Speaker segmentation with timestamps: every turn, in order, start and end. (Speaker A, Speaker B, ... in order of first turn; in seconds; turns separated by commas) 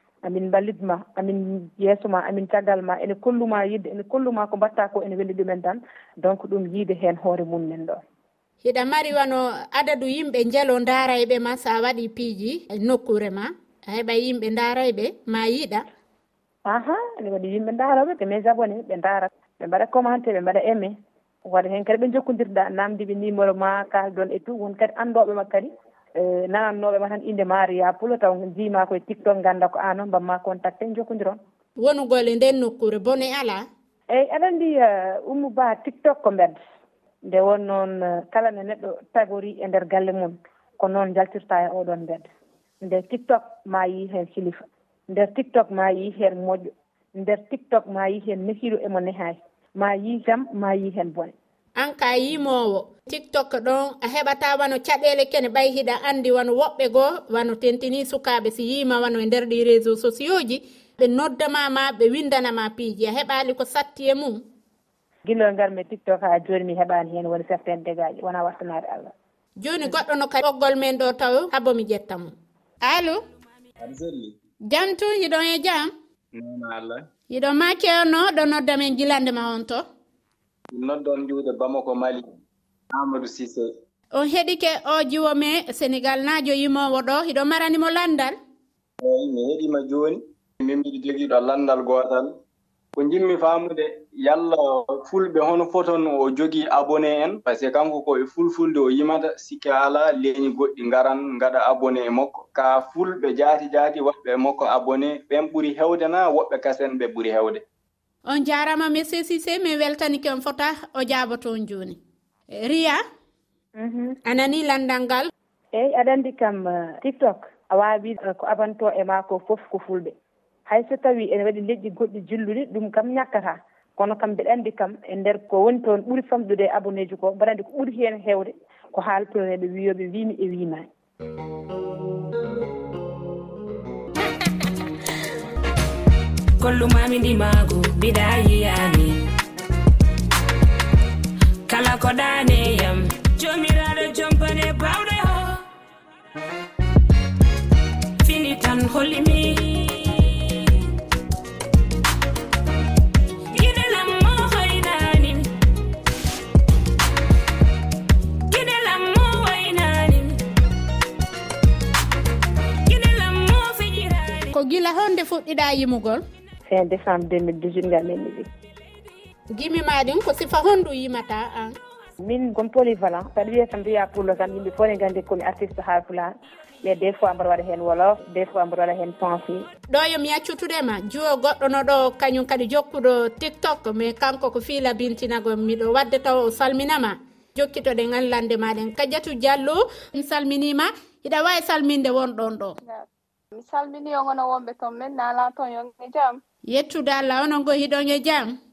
Speaker A: 0.2-8.0, Speaker B: 8.6-15.8, Speaker A: 16.6-31.4, Speaker B: 31.8-33.6, Speaker A: 34.1-36.6, Speaker A: 37.2-42.3, Speaker A: 42.8-51.3, Speaker B: 51.8-64.4, Speaker A: 65.2-69.1, Speaker B: 69.6-72.3, Speaker B: 72.8-73.2, Speaker C: 73.8-74.3, Speaker B: 74.7-75.9, Speaker C: 76.3-77.1, Speaker B: 77.3-79.8, Speaker C: 80.7-82.3, Speaker C: 82.9-83.7, Speaker B: 84.1-88.3, Speaker C: 89.0-92.3, Speaker C: 92.9-107.6, Speaker B: 108.2-112.0, Speaker B: 112.5-113.0, Speaker A: 113.8-114.2, Speaker B: 114.2-115.3, Speaker A: 115.7-120.1, Speaker A: 120.7-130.9, Speaker D: 136.6-139.2, Speaker D: 141.7-145.6, Speaker D: 148.2-150.5, Speaker D: 153.5-155.5, Speaker D: 158.5-160.3, Speaker D: 162.8-164.5, Speaker B: 164.5-166.2, Speaker A: 166.7-168.5, Speaker B: 169.5-171.8, Speaker A: 172.2-179.7, Speaker B: 179.9-192.8, Speaker E: 192.8-196.4, Speaker B: 196.7-198.5